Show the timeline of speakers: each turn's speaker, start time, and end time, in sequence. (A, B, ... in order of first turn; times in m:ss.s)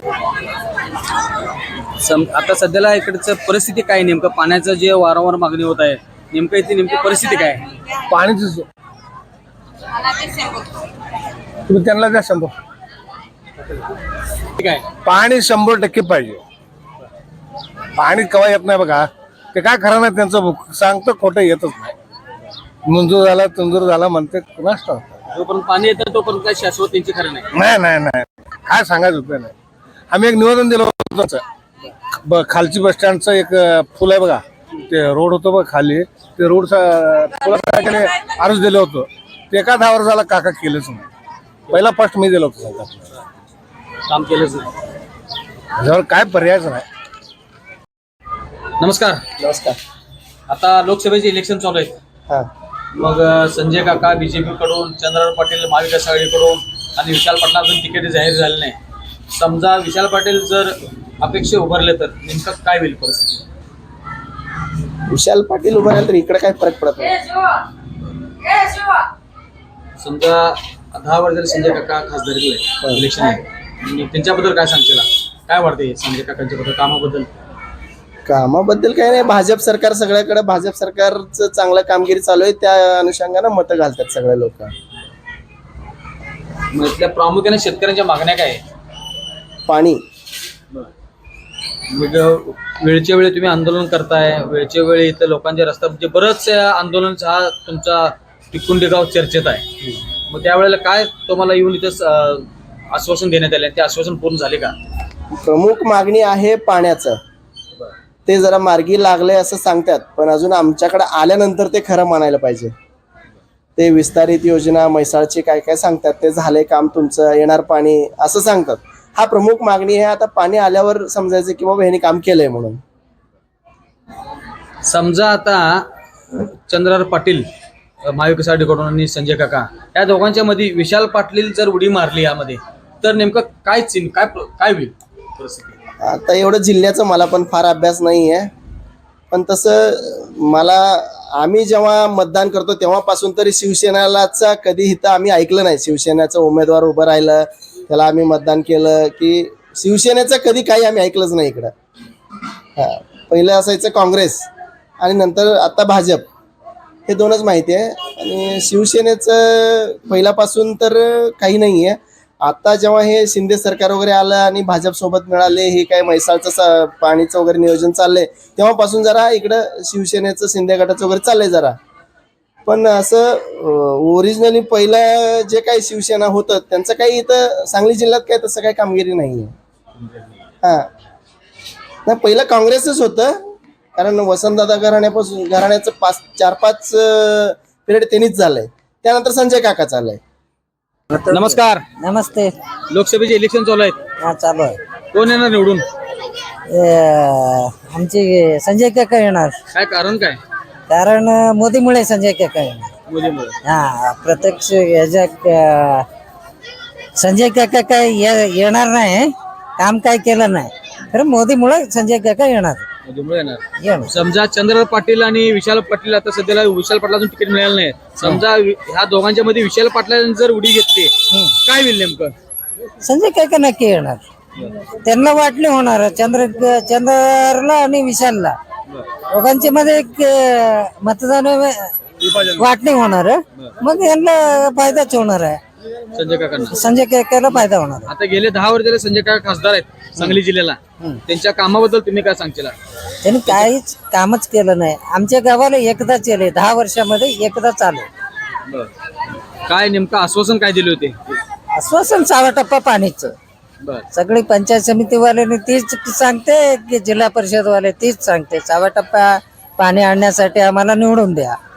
0:02.0-0:07.6 A
0:08.1-0:08.7 B
0:11.7-0:12.5 B
0:14.6-0:14.8 A
0:15.0-0:16.4 B
0:17.9-0:21.9 B
0:22.8-0:25.0 B
0:25.3-0:27.4 A
0:27.5-0:29.5 B
0:30.1-0:31.4 B
0:32.2-0:41.0 B
0:41.7-0:43.1 B
0:44.1-0:44.7 A
0:45.8-0:46.8 B
0:48.8-0:49.2 A
0:49.4-0:49.8 C
0:50.5-0:52.0 A
0:53.0-0:58.8 A
0:59.3-1:03.4 A
1:05.1-1:07.2 C
1:10.0-1:17.3 A
1:18.2-1:24.7 C
1:26.7-1:28.6 A
1:29.7-1:30.0 C
1:31.9-1:39.6 A
1:40.3-1:44.7 A
1:45.3-1:47.2 C
1:48.3-1:52.7 C
1:53.8-2:02.8 C
2:04.8-2:05.8 A
2:06.4-2:07.5 A
2:08.1-2:15.8 A
2:16.0-2:18.5 C
2:19.3-2:31.7 C
2:32.8-2:34.4 C
2:35.0-2:36.2 C
2:37.1-2:51.8 C
2:52.7-2:59.5 C
3:02.0-3:03.3 C
3:04.0-3:10.2 C
3:11.3-3:11.8 A
3:11.3-3:12.5 D
3:12.9-3:14.0 A
3:14.2-3:14.8 D
3:15.1-3:15.8 A
3:16.7-3:19.5 D
3:19.7-3:20.4 A
3:20.9-3:22.9 D
3:23.1-3:23.5 A
3:23.6-3:26.0 D
3:27.2-3:32.8 D
3:33.0-3:41.1 A
3:33.8-3:34.1 D
3:41.6-3:42.3 A
3:43.0-3:44.2 D
3:45.0-3:48.6 D
3:49.3-3:51.9 D
3:52.2-3:52.7 A
3:52.6-3:55.6 D
3:56.1-3:56.8 A
3:56.7-3:58.1 D
3:57.5-4:02.7 A
4:03.2-4:08.1 D
4:03.4-4:03.7 A
4:09.7-4:11.4 A
4:11.7-4:13.3 D
4:14.1-4:21.6 D